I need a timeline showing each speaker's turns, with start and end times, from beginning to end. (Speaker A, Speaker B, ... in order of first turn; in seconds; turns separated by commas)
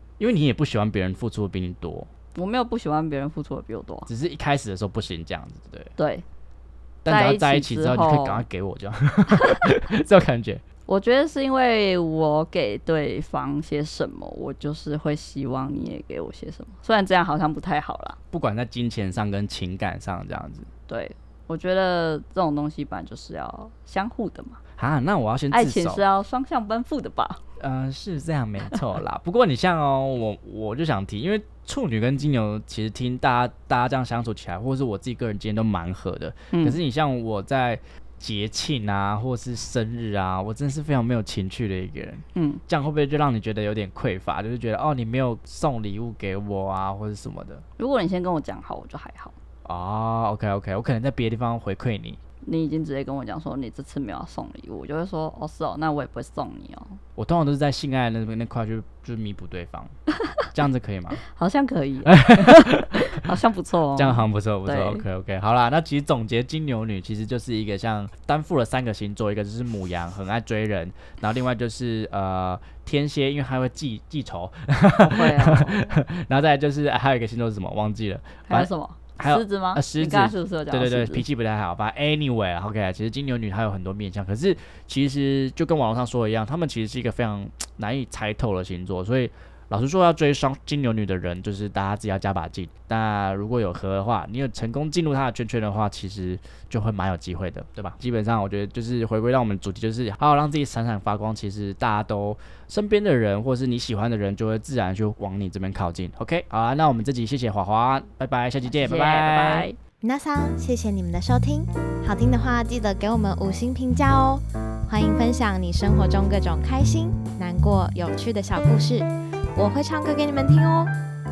Speaker A: 0.2-2.1, Speaker B: 2.4-4.1, Speaker A: 4.1-5.9, Speaker B: 6.0-6.2, Speaker A: 7.0-10.6, Speaker B: 7.1-8.4, Speaker B: 10.9-18.2, Speaker A: 18.3-20.7, Speaker B: 20.9-24.6, Speaker A: 24.8-26.1, Speaker B: 25.5-27.4, Speaker A: 27.6-47.6, Speaker B: 36.5-36.8, Speaker B: 42.4-42.6, Speaker B: 47.8-49.4, Speaker A: 49.6-52.2, Speaker B: 52.4-57.0, Speaker A: 57.2-59.9, Speaker A: 60.5-61.2, Speaker B: 61.2-65.0, Speaker A: 62.1-63.3, Speaker A: 64.0-109.7, Speaker B: 75.0-76.0, Speaker B: 78.5-81.2, Speaker B: 108.8-109.8, Speaker C: 110.0-120.9